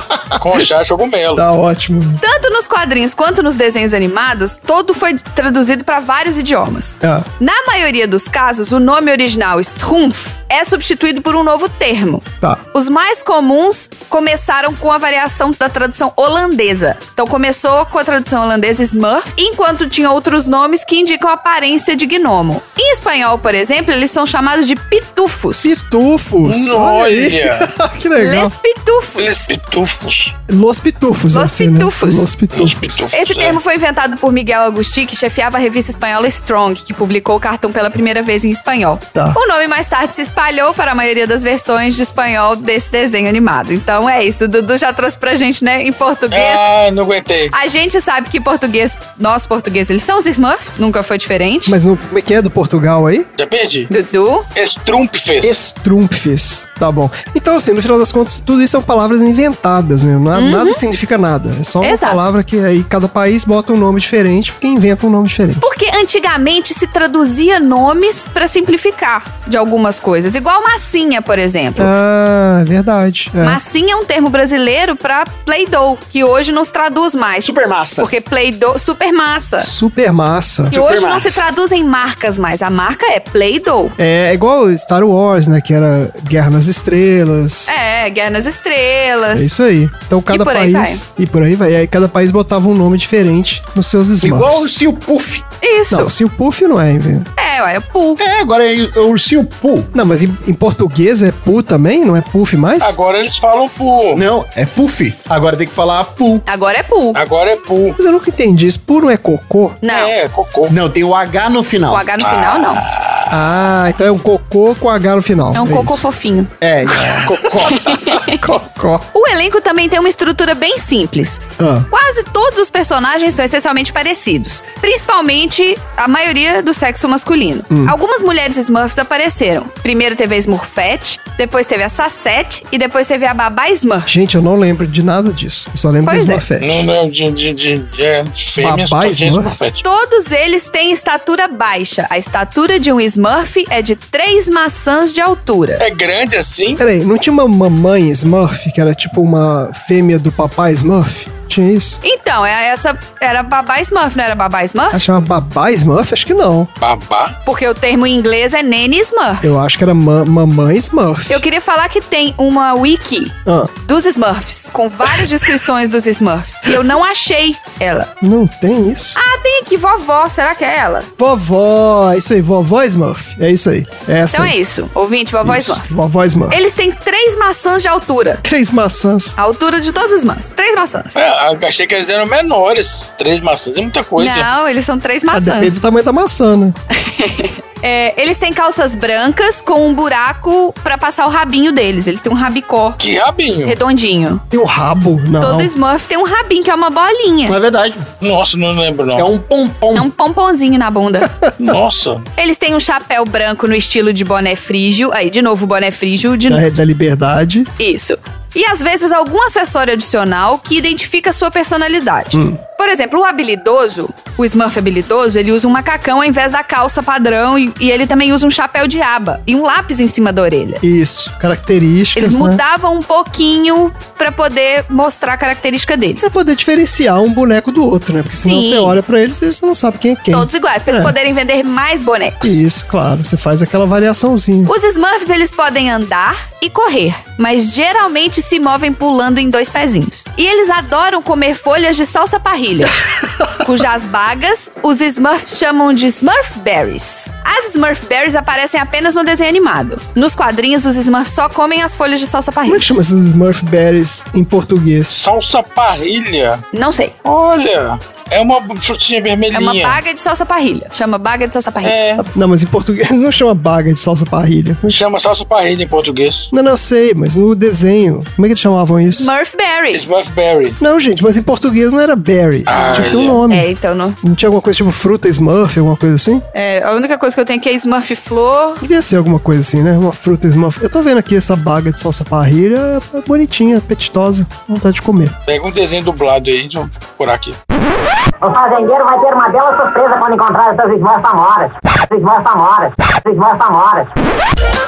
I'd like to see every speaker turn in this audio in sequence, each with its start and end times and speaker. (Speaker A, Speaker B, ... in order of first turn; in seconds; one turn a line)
Speaker A: 0.3-1.4
Speaker B: 1.3-2.2
Speaker C: 2.2-25.8
Speaker B: 7.0-7.3
Speaker B: 25.6-28.5
Speaker A: 26.4-27.7
Speaker C: 28.2-29.4
Speaker A: 29.2-30.4
Speaker B: 30.5-33.1
Speaker C: 31.3-32.3
Speaker A: 32.5-33.6
Speaker C: 33.1-46.6
Speaker B: 39.1-39.4
Speaker A: 46.3-47.5
Speaker C: 47.5-51.8
Speaker B: 51.6-53.3
Speaker A: 53.4-53.9
Speaker C: 53.9-54.5
Speaker A: 54.5-55.6
Speaker B: 55.4-65.6
Speaker C: 60.3-60.8
Speaker C: 61.8-62.2
Speaker C: 65.6-71.9
Speaker B: 71.8-73.6
Speaker C: 73.4-79.7
Speaker D: 77.4-78.1
Speaker B: 79.6-80.7
Speaker D: 80.7-81.4
Speaker C: 80.7-84.0
Speaker B: 84.0-87.7
Speaker C: 87.7-89.5
Speaker B: 89.3-94.7
Speaker C: 90.3-91.0
Speaker D: 94.2-95.4
Speaker C: 95.6-96.1
Speaker B: 95.9-97.3
Speaker C: 97.4-98.2
Speaker D: 98.2-99.9
Speaker B: 99.9-103.0
Speaker A: 102.8-104.2
Speaker D: 104.1-106.4
Speaker C: 106.5-107.2
Speaker A: 107.1-108.0
Speaker B: 108.0-109.8
Speaker C: 109.8-110.1
Speaker A: 109.9-110.7
Speaker D: 110.7-112.0
Speaker C: 111.9-112.8
Speaker A: 112.2-113.3
Speaker B: 113.3-116.1
Speaker C: 115.5-116.5
Speaker D: 116.6-117.9
Speaker B: 116.9-117.3
Speaker C: 117.6-118.4
Speaker B: 118.2-119.0
Speaker C: 119.1-134.1
Speaker B: 121.6-121.9
Speaker B: 127.7-127.9
Speaker B: 134.1-136.8
Speaker C: 136.0-136.4
Speaker A: 136.6-139.8
Speaker B: 138.6-139.5
Speaker C: 139.8-145.8
Speaker A: 145.8-146.8
Speaker B: 146.8-152.0
Speaker C: 152.0-155.1
Speaker B: 154.9-156.7
Speaker A: 156.8-157.3
Speaker C: 157.4-159.5
Speaker B: 159.4-161.4
Speaker C: 161.3-168.1
Speaker B: 163.4-163.7
Speaker B: 168.2-169.2
Speaker C: 169.2-171.1
Speaker B: 171.2-174.5
Speaker C: 174.3-175.9
Speaker B: 175.4-176.6
Speaker C: 176.5-178.4
Speaker B: 178.4-179.3
Speaker C: 179.4-181.1
Speaker A: 181.2-184.5
Speaker C: 184.2-185.8
Speaker B: 185.3-186.8
Speaker C: 186.9-193.0
Speaker A: 193.0-193.8
Speaker C: 193.7-194.4
Speaker B: 194.5-195.7
Speaker C: 195.4-197.6
Speaker D: 197.4-198.1
Speaker A: 198.2-199.3
Speaker D: 199.2-200.1
Speaker C: 199.9-201.3
Speaker A: 201.6-202.2
Speaker C: 202.4-206.6
Speaker B: 206.5-207.7
Speaker C: 207.8-220.8
Speaker B: 212.3-212.6
Speaker B: 220.8-222.6
Speaker C: 222.1-226.3
Speaker B: 226.2-231.1
Speaker C: 228.4-229.0
Speaker C: 230.3-232.6
Speaker B: 232.4-234.7
Speaker C: 234.7-243.0
Speaker C: 243.6-252.8
Speaker B: 252.7-255.3
Speaker A: 255.2-256.6
Speaker C: 256.7-257.1
Speaker A: 257.2-260.0
Speaker C: 259.5-262.2
Speaker A: 261.8-262.2
Speaker B: 262.3-265.0
Speaker A: 264.9-266.5
Speaker B: 266.5-269.3
Speaker C: 269.1-270.0
Speaker A: 269.9-270.8
Speaker B: 270.8-273.7
Speaker A: 272.7-273.4
Speaker C: 272.7-274.2
Speaker B: 274.2-276.4
Speaker C: 276.5-278.8
Speaker B: 278.8-285.4
Speaker A: 285.5-287.6
Speaker E: 288.4-294.1